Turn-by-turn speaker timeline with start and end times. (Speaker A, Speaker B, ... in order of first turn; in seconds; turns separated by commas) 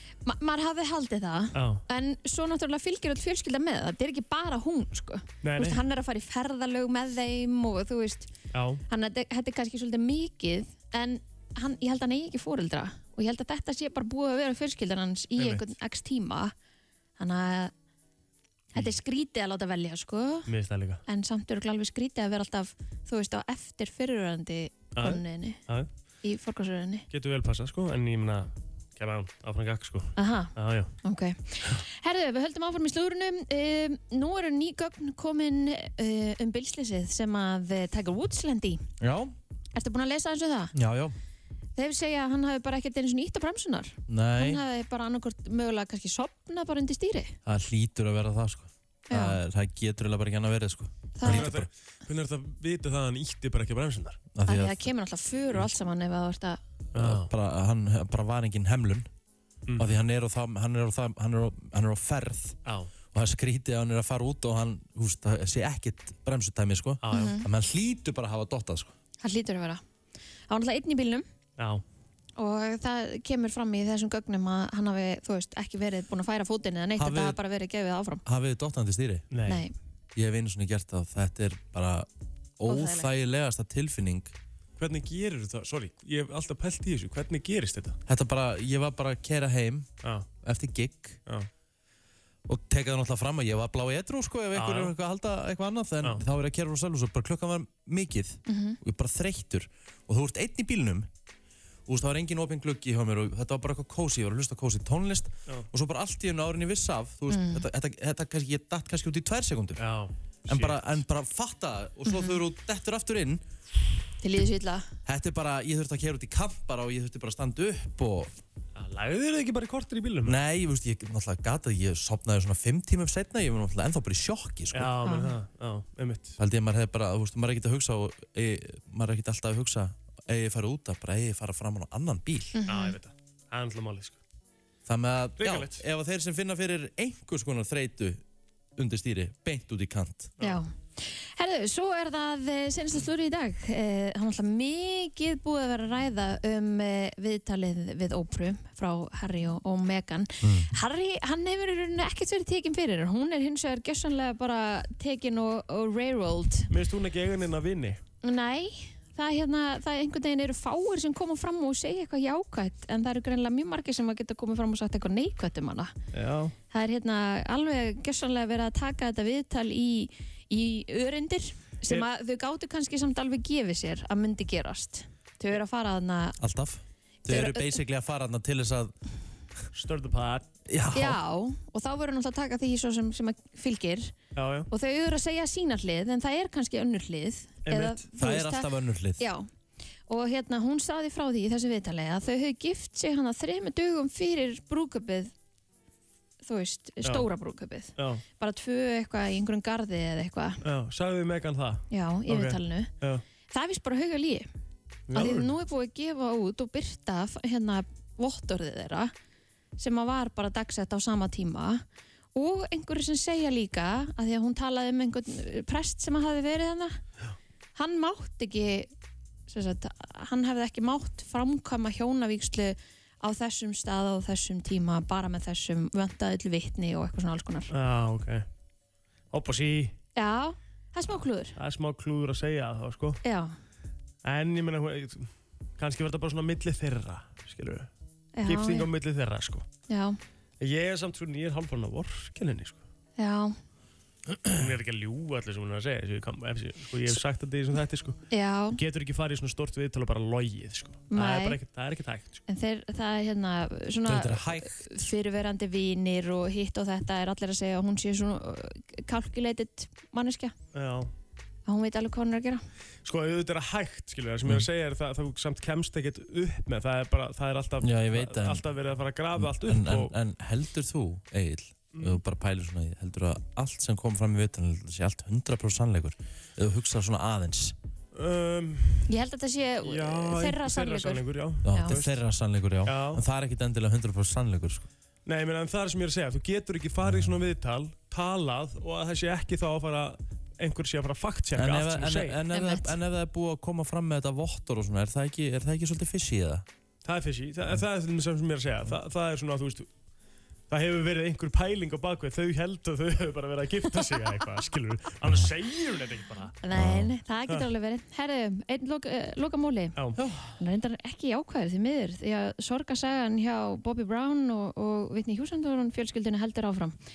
Speaker A: 0.2-8.3, Speaker B: 1.5-1.8, Speaker B: 5.4-5.8, Speaker B: 8.5-8.8, Speaker A: 8.9-16.5, Speaker B: 15.4-15.6, Speaker A: 17.2-17.7, Speaker A: 18.7-20.5, Speaker B: 20.5-21.0, Speaker A: 21.1-25.6, Speaker B: 24.9-25.9, Speaker A: 26.2-27.1, Speaker B: 27.1-30.9, Speaker A: 30.1-30.5, Speaker A: 31.0-38.8, Speaker C: 39.0-39.3, Speaker A: 39.7-40.7, Speaker C: 40.7-41.1, Speaker A: 41.8-47.3, Speaker C: 44.1-44.6, Speaker C: 47.5-51.7, Speaker A: 49.1-49.4, Speaker A: 51.1-51.5, Speaker B: 51.2-54.2, Speaker C: 54.3-54.9, Speaker A: 54.5-56.6, Speaker B: 56.9-57.3, Speaker C: 56.9-59.1, Speaker B: 59.7-60.0, Speaker C: 59.8-62.6, Speaker B: 62.6-62.9, Speaker C: 63.1-68.9, Speaker B: 67.0-67.4, Speaker A: 67.1-67.5, Speaker A: 69.2-69.8, Speaker A: 70.5-71.2, Speaker B: 71.6-71.8, Speaker A: 72.4-78.2, Speaker C: 77.0-77.4, Speaker C: 78.2-79.3, Speaker B: 79.3-79.6, Speaker A: 79.4-79.7, Speaker C: 80.2-82.1, Speaker C: 82.6-84.3, Speaker A: 82.7-83.1, Speaker B: 84.8-88.0, Speaker C: 88.1-89.9, Speaker C: 90.4-91.2, Speaker C: 92.5-101.1, Speaker B: 94.5-94.9, Speaker A: 98.5-98.8, Speaker C: 101.9-109.8, Speaker A: 107.3-107.6, Speaker B: 109.8-111.0, Speaker C: 110.5-113.4, Speaker A: 112.0-112.4, Speaker A: 114.2-114.9, Speaker C: 115.0-118.3, Speaker B: 118.8-120.4, Speaker C: 120.2-124.9, Speaker B: 124.7-126.3, Speaker A: 125.0-125.3, Speaker C: 126.4-132.5, Speaker A: 132.5-133.0, Speaker B: 132.7-134.2, Speaker C: 134.9-138.2, Speaker B: 135.4-135.8, Speaker C: 138.8-140.3, Speaker A: 140.4-156.7, Speaker C: 150.4-150.7, Speaker B: 156.7-158.0, Speaker A: 158.2-165.9, Speaker B: 166.1-166.5, Speaker A: 166.7-176.4, Speaker C: 176.4-178.9, Speaker A: 177.3-177.8, Speaker B: 179.7-180.4, Speaker C: 180.7-181.2, Speaker A: 180.9-184.1, Speaker B: 184.3-184.7, Speaker A: 184.7-189.5, Speaker B: 187.7-188.0, Speaker C: 188.2-189.2, Speaker A: 190.1-195.3, Speaker A: 196.4-200.6, Speaker B: 198.0-198.2, Speaker B: 200.6-203.2, Speaker A: 201.9-202.9, Speaker A: 203.5-204.5, Speaker B: 205.1-205.5, Speaker A: 205.1-209.1, Speaker A: 209.8-211.8, Speaker A: 212.3-217.0, Speaker A: 217.8-218.9, Speaker A: 219.5-227.7, Speaker B: 227.7-228.4, Speaker B: 229.3-229.9, Speaker A: 230.2-231.5, Speaker B: 231.6-233.2, Speaker A: 233.2-233.5, Speaker B: 234.2-237.9, Speaker A: 238.4-238.9, Speaker B: 238.4-239.7, Speaker A: 239.9-240.2, Speaker B: 240.6-242.8, Speaker A: 243.2-243.6, Speaker B: 244.5-248.2, Speaker A: 248.3-248.8, Speaker B: 248.7-252.4, Speaker A: 251.1-251.6, Speaker A: 252.5-260.5, Speaker C: 254.0-254.9, Speaker B: 260.7-261.1, Speaker A: 261.6-262.6, Speaker B: 263.0-270.1, Speaker C: 267.8-268.6, Speaker C: 269.4-277.7, Speaker B: 271.9-272.2, Speaker B: 278.1-279.1, Speaker A: 279.1-281.9, Speaker B: 279.8-282.2, Speaker C: 281.6-284.9, Speaker B: 282.8-283.2, Speaker B: 285.2-292.4, Speaker C: 287.0-287.4, Speaker C: 291.5-296.6, Speaker A: 292.5-292.9, Speaker B: 297.0-299.9, Speaker B: 300.7-306.6, Speaker A: 306.6-309.9, Speaker C: 306.7-307.1, Speaker C: 310.2-310.5, Speaker A: 310.6-316.9